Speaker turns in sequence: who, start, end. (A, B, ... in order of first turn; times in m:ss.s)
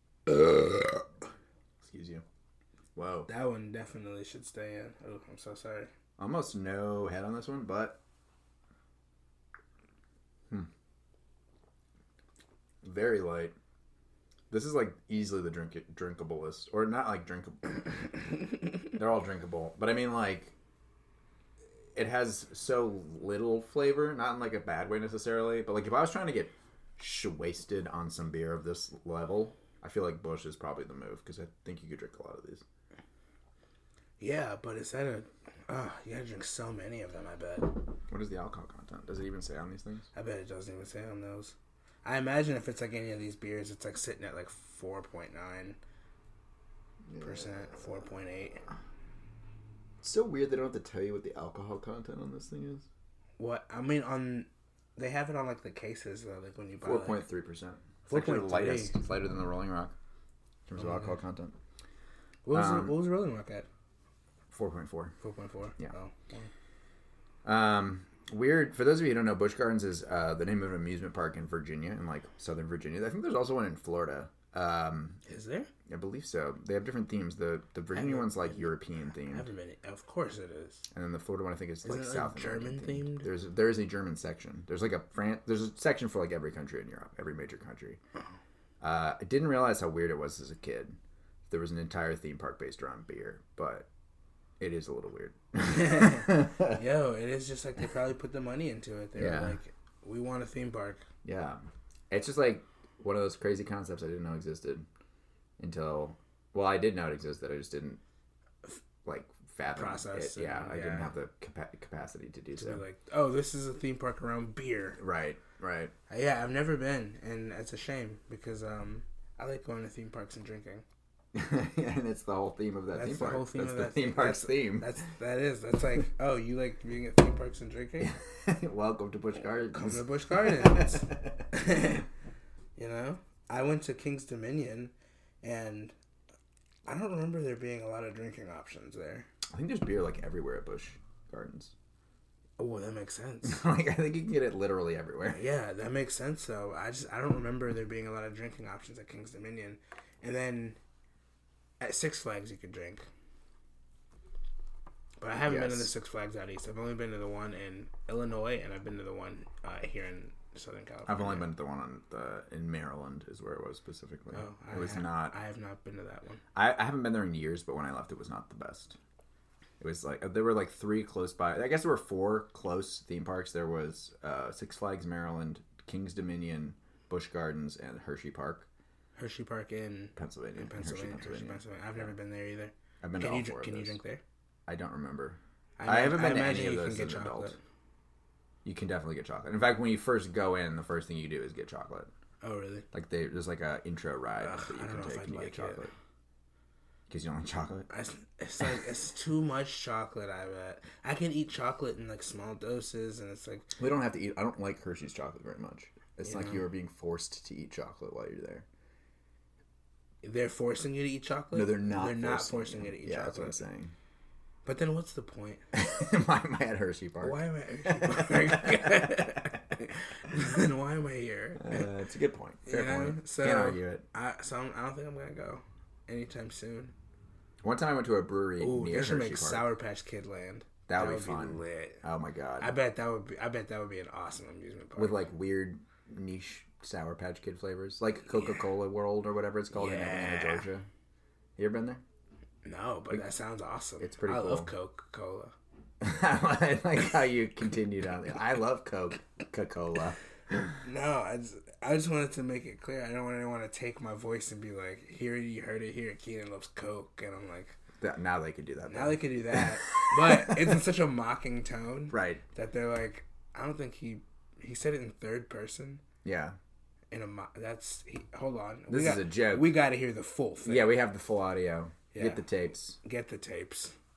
0:01.8-0:02.2 A
0:03.0-0:03.3 A
0:03.3-0:05.9 B
0:06.2-0:08.0 A
0:12.8-0:13.6 A
0:14.5-0:18.0 A
0:18.9-0:20.5 A
0:22.0-0:32.6 A
0:34.2-0:37.8 B
0:38.1-0:40.1 A
0:40.1-0:45.8 B
0:47.1-0:47.7 A
0:47.2-0:48.6 B
0:50.0-0:52.9 A
0:53.4-0:57.2 B
0:56.8-1:00.0 A
0:58.1-0:59.0 B
1:00.7-1:01.6 A
1:02.4-1:03.7 B
1:02.5-1:03.0 A
1:04.5-1:05.2 A
1:05.2-1:06.5 B
1:07.4-1:15.2 A
1:15.2-1:15.7 B
1:15.9-1:19.5 A
1:17.9-1:18.8 B
1:19.3-1:20.9 B
1:20.9-1:28.0 A
1:21.8-1:23.3 B
1:28.8-1:31.0 A
1:31.5-1:33.9 A
1:34.6-1:36.8 A
1:35.6-1:41.0 B
1:39.2-1:39.6 A
1:41.2-1:44.9 A
1:45.6-1:48.0 A
1:49.0-1:52.8 A
1:49.8-1:51.1 B
1:52.6-1:55.0 B
1:55.0-1:55.9 A
1:56.1-2:00.8 B
2:01.3-2:05.0 A
2:03.0-2:08.1 B
2:08.0-2:11.2 A
2:09.7-2:12.1 B
2:12.8-2:15.9 B
2:16.9-2:19.3 B
2:19.5-2:21.7 A
2:22.6-2:23.6 B
2:23.4-2:25.4 A
2:25.3-2:30.8 B
2:31.8-2:33.0 B
2:35.2-2:41.5 B
2:35.5-2:35.9 A
2:41.1-2:45.4 A
2:44.3-2:46.4 B
2:46.6-2:49.0 A
2:49.8-2:58.7 A
2:59.2-3:04.2 B
3:00.2-3:02.1 A
3:03.0-3:04.0 A
3:04.7-3:07.6 A
3:05.8-3:07.6 B
3:08.6-3:12.1 A
3:12.4-3:12.9 B
3:12.9-3:15.9 A
3:14.4-3:15.9 B
3:17.1-3:17.9 A
3:17.9-3:23.7 B
3:23.8-3:28.6 A
3:26.2-3:26.6 B
3:30.2-3:33.6 B
3:31.5-3:33.9 A
3:34.6-3:35.6 B
3:35.7-3:39.2 A
3:37.2-3:41.9 B
3:41.6-3:44.0 A
3:42.7-3:46.9 B
3:47.6-3:49.7 A
3:48.6-3:52.0 B
3:50.9-3:52.8 A
3:52.6-3:55.2 B
3:55.0-4:00.9 A
3:59.7-4:00.7 B
4:01.6-4:02.0 A
4:02.6-4:05.5 B
4:04.0-4:04.7 A
4:06.0-4:10.6 A
4:10.8-4:17.8 B
4:18.0-4:20.7 A
4:18.9-4:26.0 B
4:22.1-4:22.4 A
4:26.2-4:26.6 A
4:27.1-4:30.9 B
4:28.9-4:29.8 A
4:30.6-4:33.0 A
4:32.1-4:32.5 B
4:33.0-4:34.0 B